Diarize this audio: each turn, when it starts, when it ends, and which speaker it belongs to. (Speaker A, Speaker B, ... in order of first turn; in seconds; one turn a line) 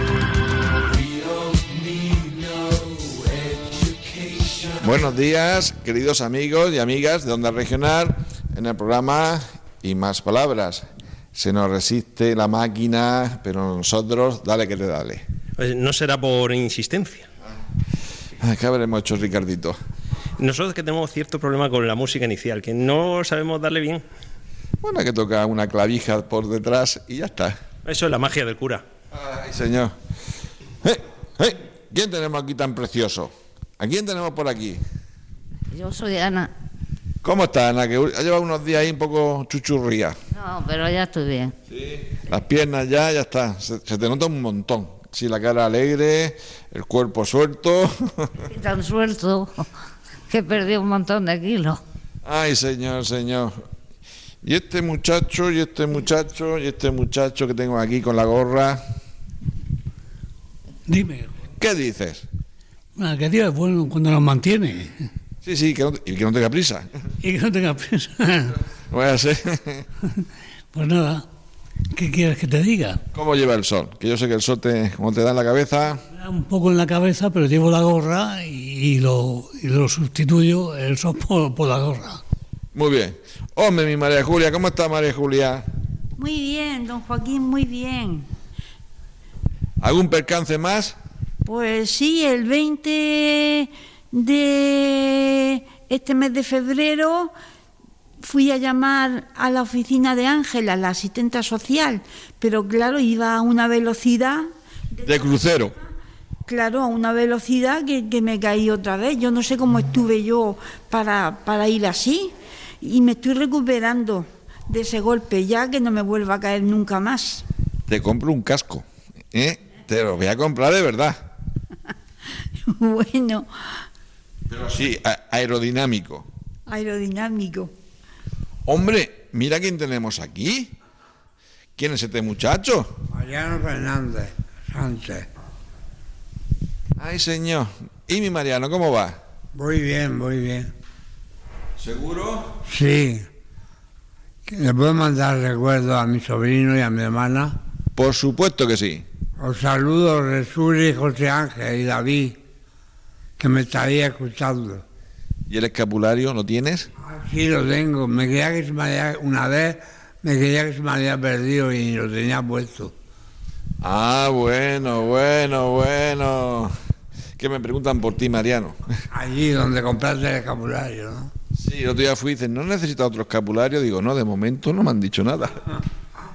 Speaker A: 4.8-15.2
Speaker B: 15.6-17.3
Speaker A: 18.4-19.8
Speaker B: 20.4-24.0
Speaker A: 24.8-27.6
Speaker B: 27.8-28.8
Speaker A: 29.1-29.9
Speaker A: 30.8-34.8
Speaker C: 35.7-36.5
Speaker A: 37.2-40.1
Speaker C: 40.3-41.5
Speaker A: 41.7-48.3
Speaker C: 48.5-49.7
Speaker C: 50.3-51.8
Speaker A: 52.2-53.5
Speaker A: 54.4-58.8
Speaker D: 60.9-61.3
Speaker A: 61.6-62.2
Speaker D: 63.0-65.0
Speaker A: 65.4-66.9
Speaker D: 67.2-68.6
Speaker A: 68.9-69.8
Speaker D: 70.7-71.2
Speaker D: 71.9-73.0
Speaker A: 73.1-76.0
Speaker D: 76.2-82.2
Speaker A: 82.7-85.6
Speaker E: 86.2-88.3
Speaker A: 89.8-90.9
Speaker E: 91.4-97.3
Speaker E: 98.2-104.5
Speaker A: 105.0-105.7
Speaker E: 106.5-117.4
Speaker A: 117.9-121.2
Speaker E: 122.7-123.5
Speaker A: 124.5-126.3
Speaker E: 126.7-127.7
Speaker A: 128.7-130.7
Speaker A: 131.8-132.9
Speaker F: 133.1-135.3
Speaker A: 137.0-139.2
Speaker F: 139.5-140.7
Speaker A: 141.8-142.5
Speaker F: 142.7-143.2
Speaker F: 144.5-147.5
Speaker A: 147.9-149.0
Speaker F: 149.4-152.4
Speaker F: 153.4-154.8
Speaker A: 155.5-156.9
Speaker F: 157.0-162.9
Speaker A: 163.8-166.7
Speaker A: 167.4-168.8
Speaker F: 169.1-171.3
Speaker A: 171.5-175.8